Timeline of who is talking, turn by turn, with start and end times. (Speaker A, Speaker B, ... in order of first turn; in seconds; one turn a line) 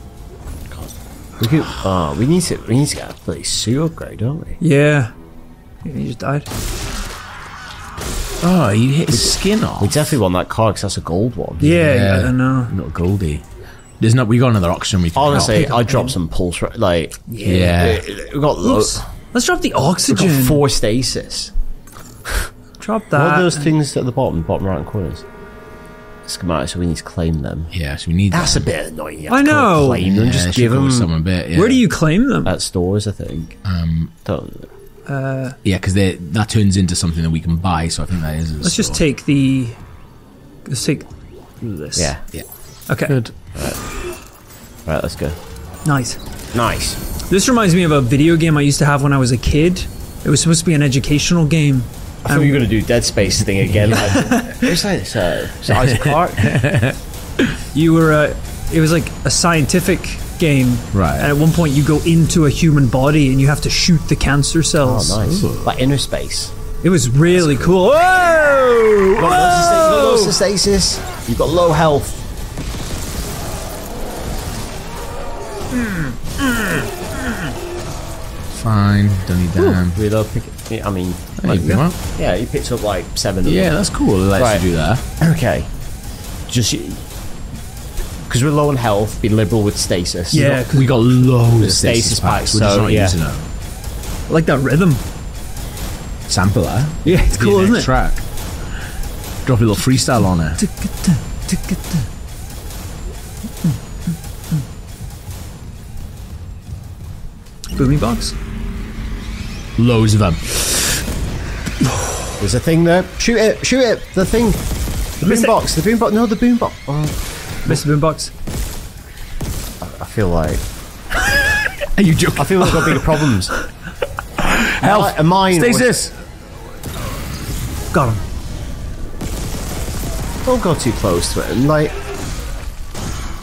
Speaker A: 0.7-4.6
Speaker B: 4.6-5.1
Speaker B: 5.8-6.5
Speaker C: 8.4-10.1
Speaker A: 9.1-11.9
Speaker B: 11.6-12.7
Speaker C: 11.7-13.4
Speaker C: 14.0-15.8
Speaker A: 15.1-19.0
Speaker B: 15.3-16.2
Speaker B: 17.3-17.8
Speaker C: 17.4-18.0
Speaker B: 18.6-20.6
Speaker A: 20.1-21.5
Speaker B: 22.8-23.7
Speaker A: 23.1-25.2
Speaker A: 26.3-27.7
Speaker C: 27.7-28.7
Speaker A: 28.3-31.1
Speaker B: 29.3-30.1
Speaker C: 30.0-31.8
Speaker B: 31.5-32.5
Speaker A: 32.4-33.6
Speaker C: 33.6-34.1
Speaker A: 34.2-34.7
Speaker B: 35.1-35.6
Speaker C: 35.6-39.0
Speaker B: 38.6-39.8
Speaker B: 40.6-41.1
Speaker B: 41.6-42.1
Speaker A: 42.0-42.2
Speaker B: 42.9-43.2
Speaker C: 43.1-43.3
Speaker A: 43.5-43.8
Speaker A: 44.9-45.4
Speaker B: 45.9-46.2
Speaker A: 46.5-47.0
Speaker B: 47.3-52.7
Speaker A: 52.2-56.5
Speaker B: 54.1-54.7
Speaker C: 55.7-57.6
Speaker B: 57.7-65.2
Speaker C: 60.9-61.3
Speaker A: 64.8-66.5
Speaker C: 65.2-65.8
Speaker B: 66.8-70.4
Speaker A: 69.2-72.2
Speaker B: 75.8-76.9
Speaker C: 78.5-80.0
Speaker A: 79.7-83.8
Speaker C: 81.4-82.0
Speaker C: 83.5-85.0
Speaker A: 84.3-84.7
Speaker A: 85.2-85.7
Speaker A: 86.5-87.0
Speaker A: 88.3-90.6
Speaker B: 90.3-90.9
Speaker C: 90.7-93.5
Speaker A: 91.6-93.2
Speaker B: 94.3-95.0
Speaker C: 96.3-98.2
Speaker B: 97.0-97.9
Speaker C: 99.5-100.6
Speaker B: 100.6-102.1
Speaker B: 103.6-104.2
Speaker B: 107.8-108.3
Speaker C: 109.8-110.7
Speaker A: 112.4-117.8
Speaker B: 115.2-115.5
Speaker B: 117.7-118.3
Speaker A: 119.8-120.6
Speaker C: 121.4-123.2
Speaker A: 122.4-123.5
Speaker C: 124.4-126.2
Speaker A: 124.8-126.0
Speaker B: 127.9-128.2
Speaker A: 130.4-132.0